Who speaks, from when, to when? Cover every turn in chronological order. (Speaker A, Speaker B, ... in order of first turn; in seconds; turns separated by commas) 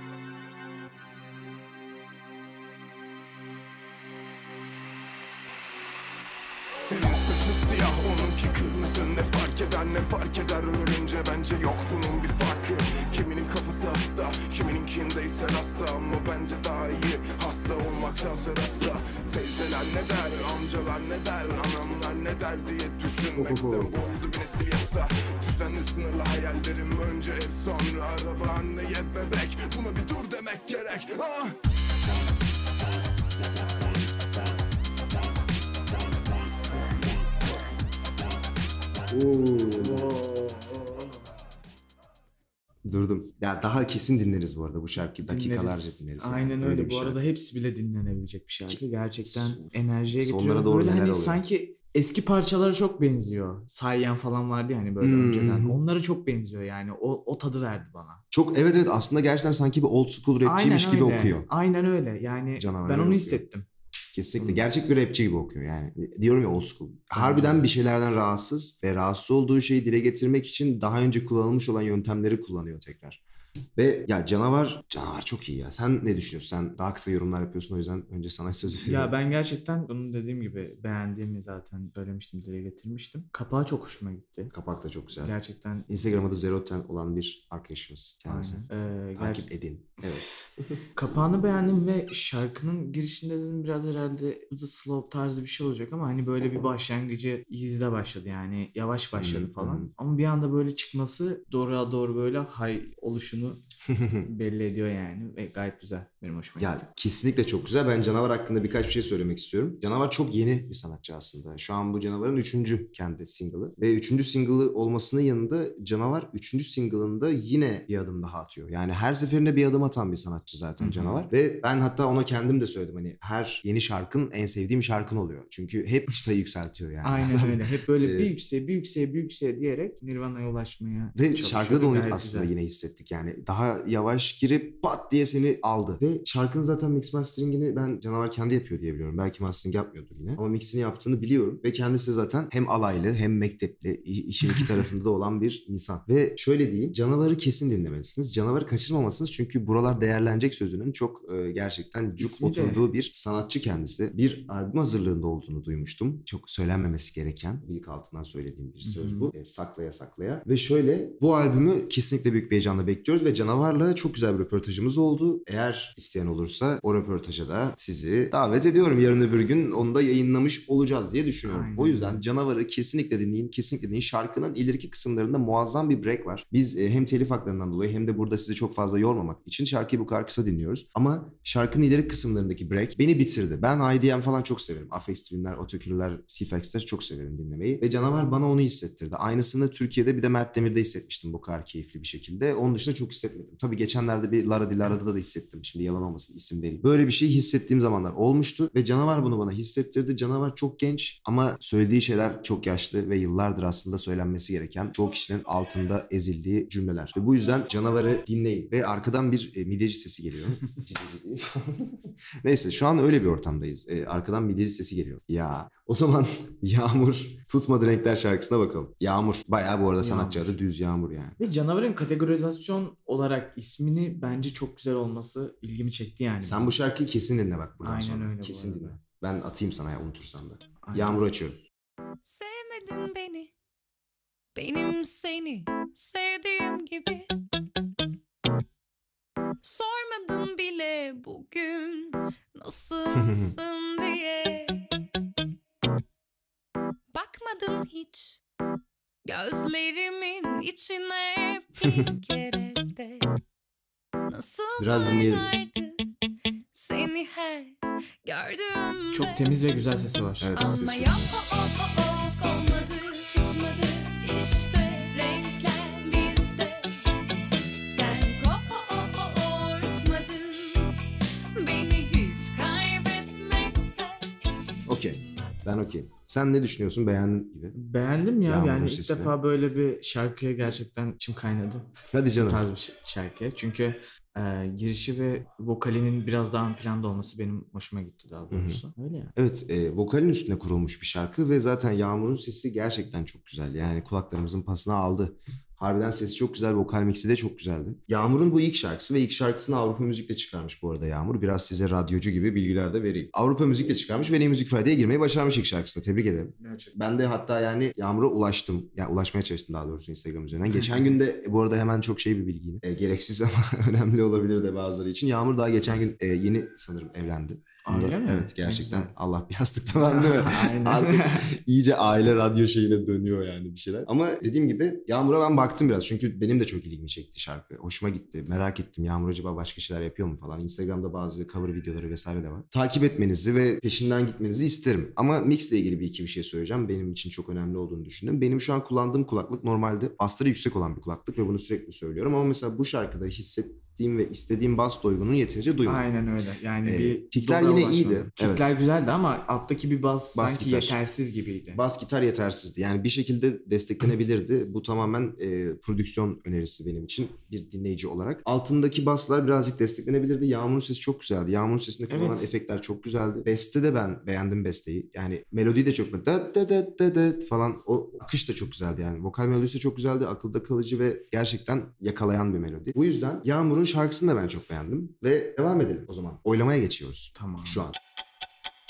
Speaker A: 6.8-31.6, Speaker B: 23.3-24.0, Speaker B: 39.1-40.0, Speaker C: 39.8-41.2, Speaker B: 42.8-47.2, Speaker C: 45.2-58.2, Speaker B: 48.7-51.4, Speaker B: 55.0-55.8, Speaker B: 58.3-61.5, Speaker C: 60.4-63.7, Speaker B: 62.6-63.4, Speaker B: 64.1-73.2, Speaker C: 64.4-64.6, Speaker C: 67.1-67.7, Speaker B: 73.8-79.1, Speaker C: 78.7-84.5, Speaker B: 84.5-85.3, Speaker C: 85.2-85.9, Speaker B: 85.9-90.8, Speaker C: 88.3-89.5, Speaker C: 90.9-103.6, Speaker B: 99.1-99.9, Speaker B: 103.9-104.3, Speaker C: 104.2-106.8, Speaker B: 106.6-128.3, Speaker C: 120.8-121.3, Speaker C: 127.0-132.5, Speaker B: 131.1-221.4, Speaker C: 152.2-152.8, Speaker C: 158.8-159.3, Speaker C: 171.5-172.2, Speaker C: 220.0-220.6, Speaker C: 221.4-226.8, Speaker B: 226.4-231.6, Speaker C: 227.8-229.0, Speaker C: 230.8-231.2, Speaker D: 232.2-233.5, Speaker D: 234.5-237.3, Speaker D: 239.6-244.8, Speaker B: 243.2-243.5, Speaker D: 247.1-248.4, Speaker D: 249.2-253.3, Speaker D: 254.3-256.0, Speaker B: 254.8-255.5, Speaker D: 256.7-259.5, Speaker C: 259.1-260.5, Speaker B: 260.4-261.4, Speaker D: 260.6-267.1, Speaker D: 267.8-270.9, Speaker D: 271.6-274.4, Speaker B: 274.9-277.8, Speaker C: 277.7-281.9, Speaker B: 278.4-279.3, Speaker B: 282.1-282.7, Speaker C: 282.4-289.3, Speaker B: 288.5-288.8, Speaker B: 289.4-346.1, Speaker C: 306.6-306.9, Speaker C: 317.8-319.1, Speaker C: 319.9-321.5, Speaker C: 345.9-351.8, Speaker B: 346.8-348.7, Speaker B: 350.3-351.0, Speaker B: 351.7-378.0, Speaker C: 362.1-362.5, Speaker C: 377.4-377.8